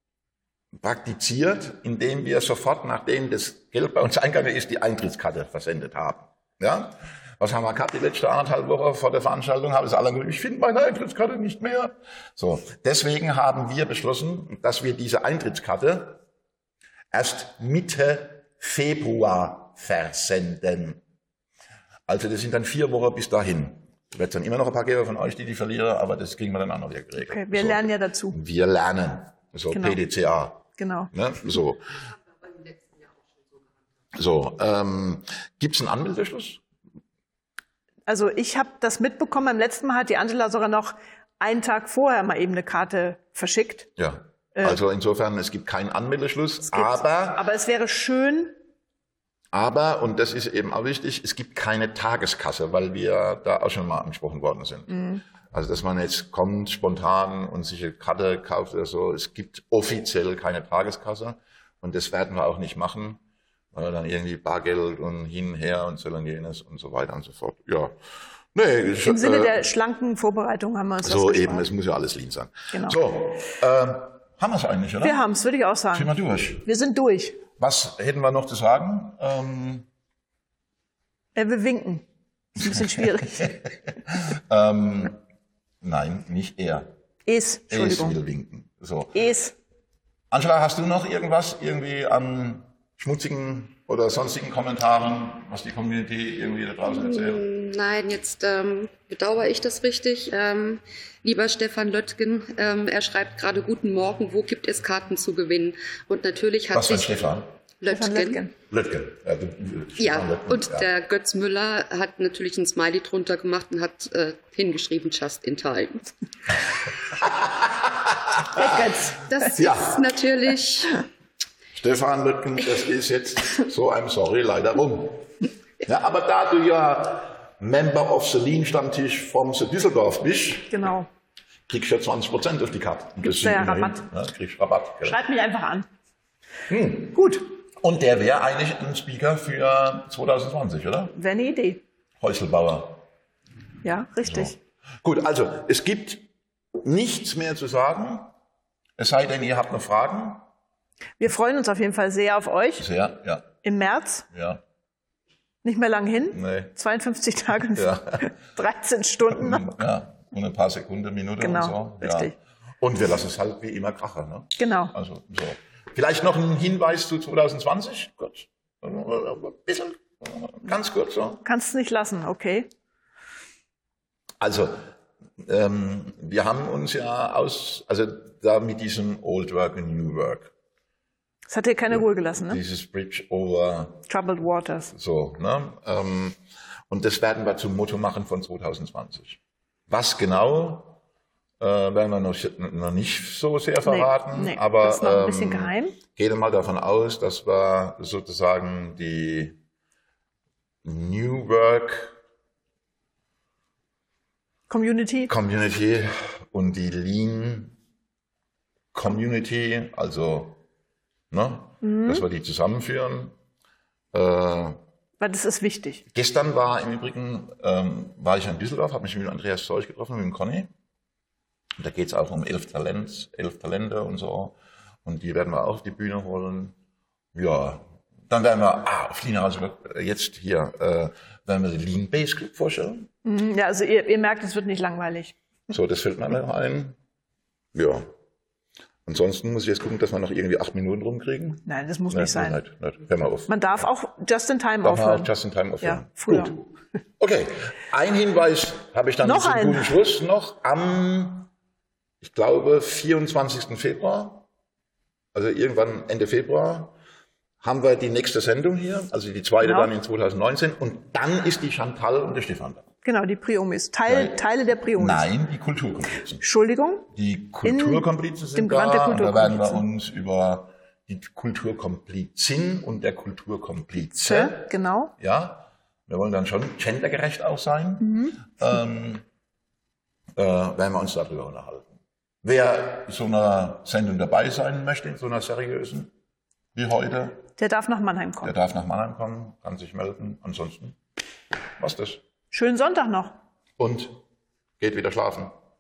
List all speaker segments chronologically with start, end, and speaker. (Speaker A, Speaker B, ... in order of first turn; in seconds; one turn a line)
Speaker A: 0.8-16.2
Speaker A: 17.1-21.0
Speaker A: 22.1-32.0
Speaker B: 27.2-28.4
Speaker B: 29.7-30.0
Speaker B: 30.8-31.1
Speaker A: 34.1-36.6
Speaker B: 38.1-43.9
Speaker A: 44.0-47.5
Speaker B: 44.5-44.8
Speaker B: 46.7-48.6
Speaker A: 49.5-63.2
Speaker B: 54.9-55.2
Speaker A: 63.7-68.0
Speaker A: 68.5-69.6
Speaker B: 69.0-71.7
Speaker A: 71.0-75.2
Speaker B: 72.7-73.0
Speaker B: 75.0-76.1
Speaker A: 75.9-76.7
Speaker B: 76.6-77.4
Speaker A: 77.6-79.9
Speaker B: 81.3-83.6
Speaker A: 82.6-85.2
Speaker A: 85.8-86.9
Speaker B: 87.3-88.2
Speaker A: 87.7-89.2
Speaker B: 89.1-89.5
Speaker A: 90.3-97.4
Speaker C: 96.9-107.1
Speaker A: 106.7-107.5
Speaker C: 107.8-108.4
Speaker B: 107.9-108.5
Speaker A: 108.7-110.9
Speaker C: 110.0-116.1
Speaker A: 117.1-118.9
Speaker B: 118.5-119.5
Speaker C: 119.2-121.0
Speaker A: 119.5-120.0
Speaker A: 121.8-125.3
Speaker A: 125.8-130.9
Speaker B: 130.7-131.1
Speaker A: 131.7-135.2
Speaker B: 133.2-134.1
Speaker B: 135.0-135.9
Speaker A: 136.7-141.1
Speaker B: 137.1-137.5
Speaker B: 141.1-141.8
Speaker A: 142.2-143.1
Speaker B: 143.8-144.6
Speaker A: 144.2-146.3
Speaker A: 146.8-148.3
Speaker A: 149.0-150.4
Speaker B: 151.2-152.9
Speaker A: 152.8-153.5
Speaker B: 153.6-154.3
Speaker A: 154.3-154.6
Speaker B: 155.6-159.8
Speaker A: 156.3-156.7
Speaker A: 157.7-158.3
Speaker A: 159.3-171.4
Speaker B: 161.4-162.3
Speaker B: 164.6-164.9
Speaker B: 171.4-172.7
Speaker A: 174.4-174.8
Speaker A: 175.4-180.5
Speaker B: 181.5-182.6
Speaker A: 182.5-184.0
Speaker B: 184.1-184.9
Speaker A: 184.9-186.4
Speaker A: 186.9-191.0
Speaker A: 191.6-199.6
Speaker B: 193.8-196.0
Speaker A: 200.8-202.2
Speaker B: 204.7-205.3
Speaker A: 205.3-207.8
Speaker A: 208.9-210.6
Speaker A: 211.3-213.3
Speaker B: 211.8-212.2
Speaker A: 214.1-214.8
Speaker B: 215.2-216.0
Speaker A: 216.1-220.7
Speaker A: 221.8-226.8
Speaker A: 227.3-233.1
Speaker B: 233.2-235.4
Speaker A: 235.7-237.0
Speaker A: 237.7-238.1
Speaker A: 239.1-243.5
Speaker B: 241.7-242.6
Speaker B: 243.5-246.6
Speaker A: 244.8-246.7
Speaker A: 247.2-251.5
Speaker B: 249.2-250.0
Speaker A: 252.2-254.5
Speaker A: 255.3-256.9
Speaker A: 257.6-262.9
Speaker B: 259.6-259.9
Speaker B: 263.0-265.3
Speaker A: 264.1-264.4
Speaker A: 265.0-266.4
Speaker B: 266.4-267.1
Speaker A: 267.1-274.7
Speaker B: 267.6-269.8
Speaker B: 274.1-275.1
Speaker A: 275.2-279.2
Speaker B: 278.0-278.5
Speaker A: 280.4-286.1
Speaker A: 286.7-287.4
Speaker B: 287.6-288.5
Speaker A: 288.4-291.0
Speaker A: 291.8-292.2
Speaker B: 292.5-293.4
Speaker A: 293.8-294.2
Speaker A: 294.8-295.5